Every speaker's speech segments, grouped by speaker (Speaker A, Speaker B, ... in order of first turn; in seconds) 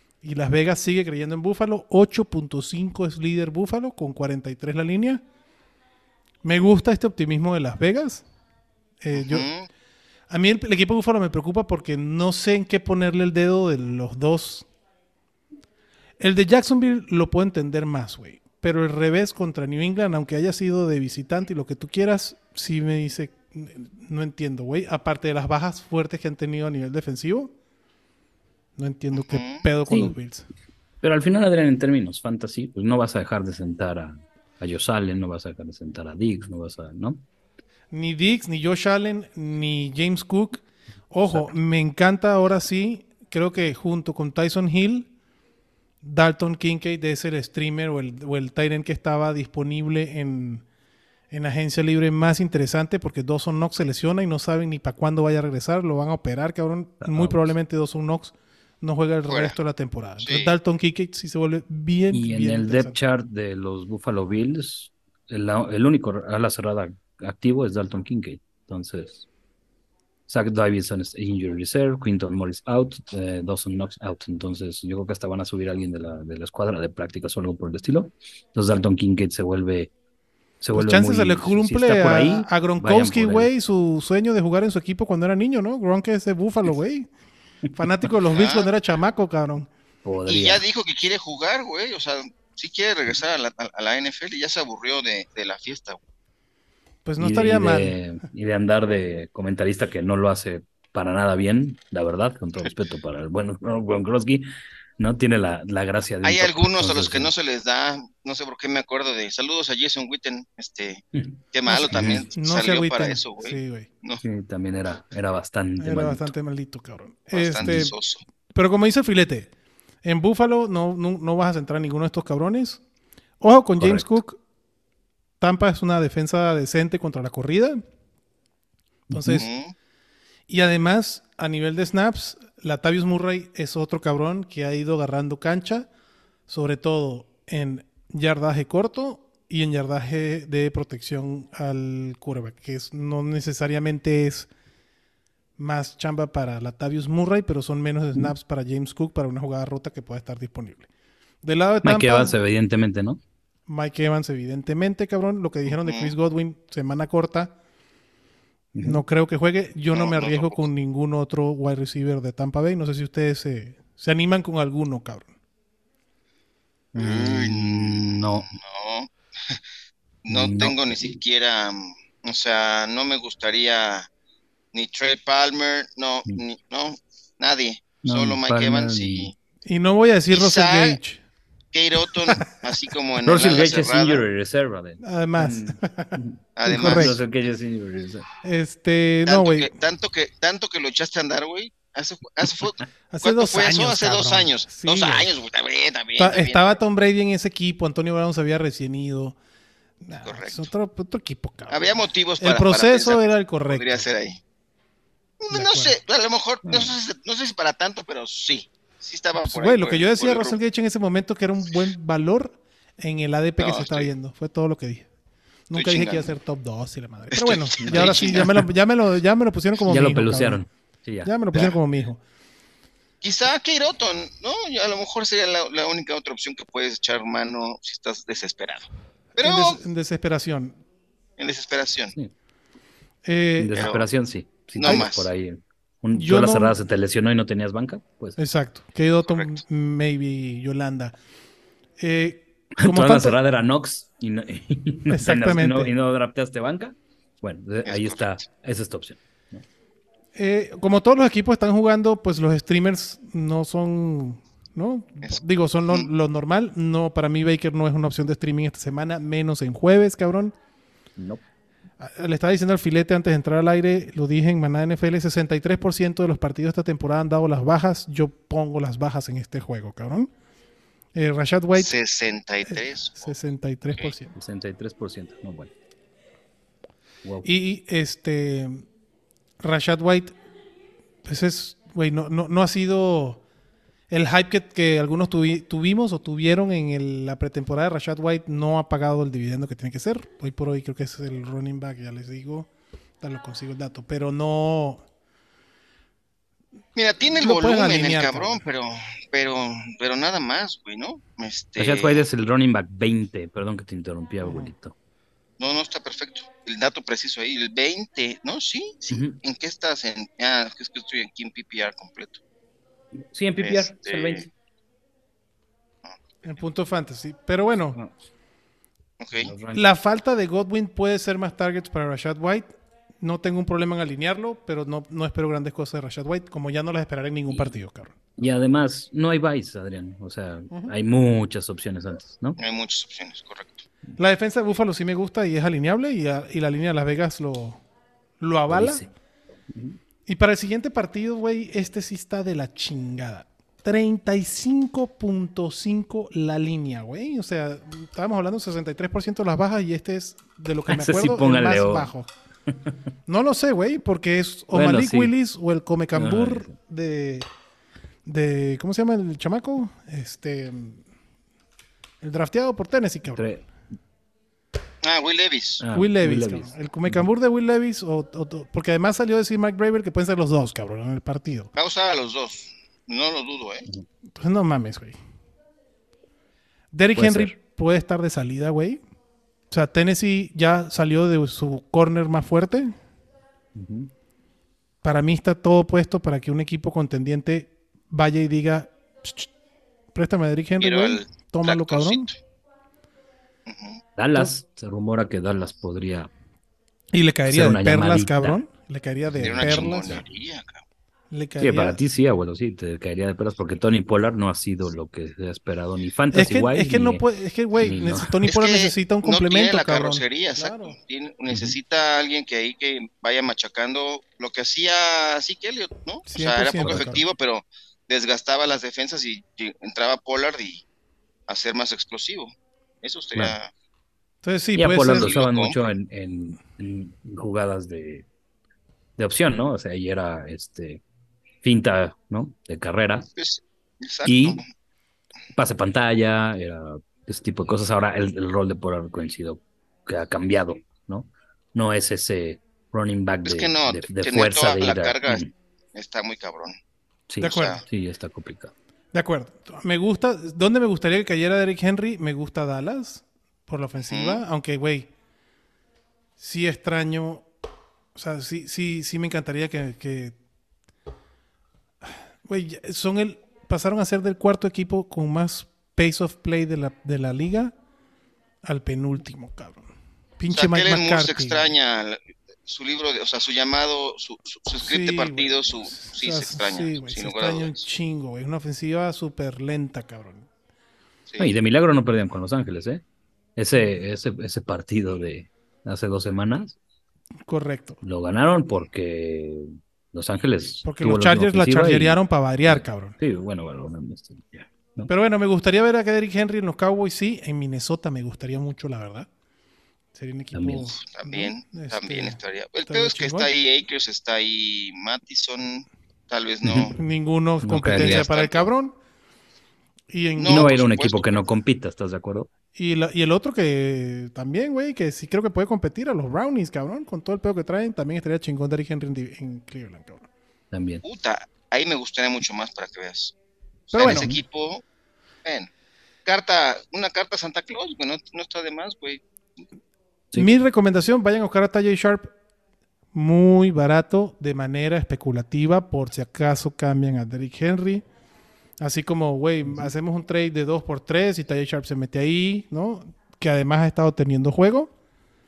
Speaker A: 0.2-5.2, 6.4-8.2, 9.0-9.5, 10.3-14.7, 16.2-27.5, 28.8-30.4, 37.9-45.1, 46.0-50.6, 51.3-63.0, 80.7-87.1, 87.7-89.7, 97.0-98.0, 111.7-113.9, 115.8-117.9, 118.5-119.5, 120.0-122.8, 123.4-124.4, 125.4-127.8, 129.1-129.5, 130.5-135.9, 136.5-144.5, 145.6-150.9, 151.4-152.3, 153.7-157.5, 158.8-165.3, 179.7-181.2, 185.0-187.2, 188.4-189.7, 193.1-195.3, 196.2-199.3, 200.0-201.8, 202.4-204.0, 205.5-206.0, 209.4-215.1, 215.7-220.6, 221.2-222.2, 229.4-230.8, 233.2-233.8, 236.1-236.7, 238.4-241.1, 242.0-243.4, 245.1-245.9, 250.3-260.5, 262.0-270.3, 271.1-271.9, 272.7-274.3, 277.4-278.8, 279.6-280.3, 281.2-283.4, 284.1-292.7, 293.2-295.0, 297.3-298.6, 304.4-304.7, 316.4-318.0, 319.7-322.7, 323.2-328.1, 334.2-337.8, 338.4-339.1, 340.3-352.3, 353.3-357.5, 358.2-361.0, 362.2-363.5, 365.9-371.7, 374.3-375.1, 376.9-379.0, 379.7-382.9, 385.0-389.5, 390.1-392.3, 397.1-400.2, 401.3-402.0, 406.3-411.0, 416.3-417.2, 424.4-425.3, 447.4-447.8, 449.1-455.1, 456.4-457.4, 458.1-460.3, 462.4-467.7, 468.6-469.9, 470.4-471.7, 474.7-480.5, 487.5-488.0, 490.8-493.1, 495.1-499.3, 500.1-503.5, 506.9-508.9, 510.1-510.7, 512.7-520.3, 523.9-524.3, 530.3-532.3, 533.1-538.0, 538.8-544.9
Speaker B: 9.1-9.7, 29.1-29.6, 59.3-59.5, 60.2-60.5, 88.3-88.7, 90.3-96.0, 106.2-114.2, 117.3-118.2, 129.3-129.7, 155.7-156.1, 159.9-160.7, 167.0-169.6, 170.2-174.1, 174.7-179.3, 180.3-181.0, 181.7-184.2, 186.6-187.2, 189.2-196.8, 200.2-200.7, 201.7-204.4, 205.4-210.6, 213.6-214.1, 215.7-216.3, 217.3-218.7, 223.2-229.8, 231.4-232.1, 233.7-234.1, 234.8-235.3, 239.3-239.6, 247.8-248.4, 271.7-273.3, 296.9-302.2, 305.6-312.4, 313.6-314.4, 319.2-319.5, 332.6-333.8, 365.0-365.8, 371.8-373.9, 390.8-392.3, 393.6-394.0, 399.4-400.8, 408.4-420.8, 421.5-423.7, 425.1-425.8, 433.4-434.7, 443.4-446.8, 447.4-447.8, 454.0-454.4, 470.5-477.9, 481.3-481.5, 500.9-506.9, 507.8-508.7, 510.4-511.4, 521.0-523.3, 523.9-524.8, 525.4-525.7, 526.2-529.2
Speaker C: 29.9-30.1, 31.0-37.2, 41.3-41.5, 57.0-57.5, 62.1-69.3, 70.3-79.9, 80.6-83.5, 90.0-90.6, 97.2-104.5, 105.0-107.3, 111.9-112.2, 114.2-116.3, 117.6-117.9, 123.8-124.2, 129.1-129.4, 151.8-153.2, 158.7-159.0, 166.9-168.5, 170.3-171.2, 178.0-179.3, 183.2-188.3, 206.7-206.9, 217.8-218.5, 219.9-221.3, 233.6-238.4, 242.8-249.6, 261.2-261.4, 274.3-275.7, 277.2-277.5, 301.8-304.9, 309.1-309.4, 313.2-314.5, 319.4-319.9, 328.4-332.6, 338.7-339.1, 339.7-340.0, 350.9-352.1, 354.7-355.3, 356.1-356.7, 363.4-363.6, 365.8-367.2, 377.1-377.5, 383.7-384.1, 394.2-396.3, 397.5-398.6, 399.3-400.2, 401.6-407.2, 407.8-408.4, 411.5-411.8, 416.8-417.1, 424.7-428.2, 429.2-431.0, 431.6-433.3, 434.2-434.6, 435.5-445.5, 447.3-448.7, 481.4-483.0, 483.6-486.8, 488.0-495.1, 500.5-500.9, 506.6-506.9, 507.6-508.2, 510.5-512.5, 520.7-521.0, 524.0-524.4